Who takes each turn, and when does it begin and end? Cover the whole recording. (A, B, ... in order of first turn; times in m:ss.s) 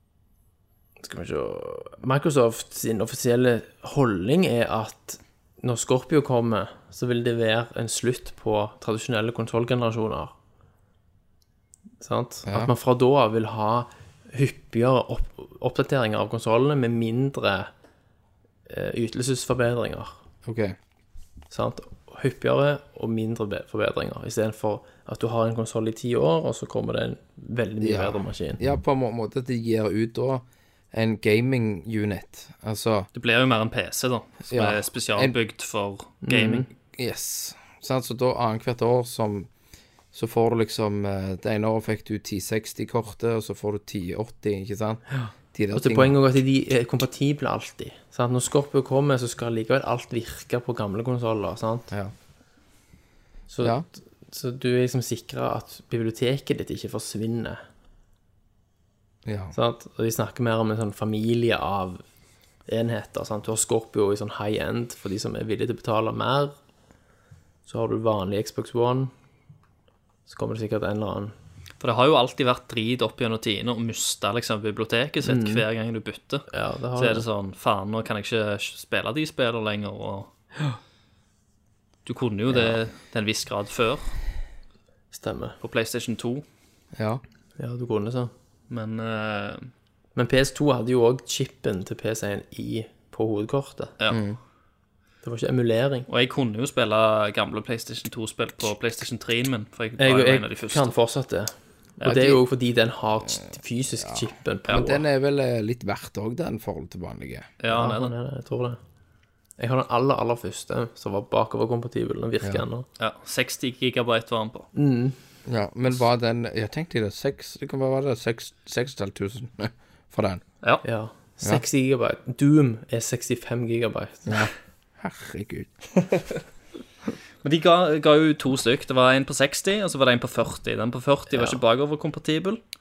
0:01.0-0:10.3 A
0:12.0-0:17.7 A
0:12.5-0:12.7 B
0:18.7-0:20.2 A
0:20.4-0:20.8 B
0:21.5-0:28.6 A
0:27.8-0:33.1 B
0:33.1-0:36.7 C
0:34.5-0:35.4 B
0:36.2-0:36.7 A
0:36.9-0:39.5 B
0:40.1-0:46.2 B
0:45.1-0:51.9 A
0:53.5-0:57.6 A
0:59.2-0:59.5 B
0:59.5-1:02.0 A
1:02.7-1:06.5 A
1:07.6-1:09.1 A
1:10.3-1:11.3 A
1:11.8-1:20.3 C
1:15.2-1:15.6 A
1:16.5-1:17.2 A
1:22.0-1:24.2 C
1:22.5-1:22.8 A
1:25.1-1:25.6 A
1:25.6-1:26.4 C
1:27.0-1:27.2 B
1:27.6-1:28.3 A
1:28.7-1:29.7 C
1:30.2-1:33.9 A
1:34.1-1:34.4 B
1:35.2-1:36.1 A
1:36.1-1:40.9 C
1:40.0-1:45.0 A
1:42.0-1:42.4 C
1:44.0-1:47.5 B
1:47.6-1:48.1 C
1:47.7-1:48.8 A
1:49.6-1:52.8 A
1:53.0-1:54.7 C
1:54.7-1:55.2 A
1:55.4-2:00.4 B
2:00.8-2:04.4 A
2:04.3-2:05.7 B
2:07.4-2:12.6 C
2:11.3-2:11.6 A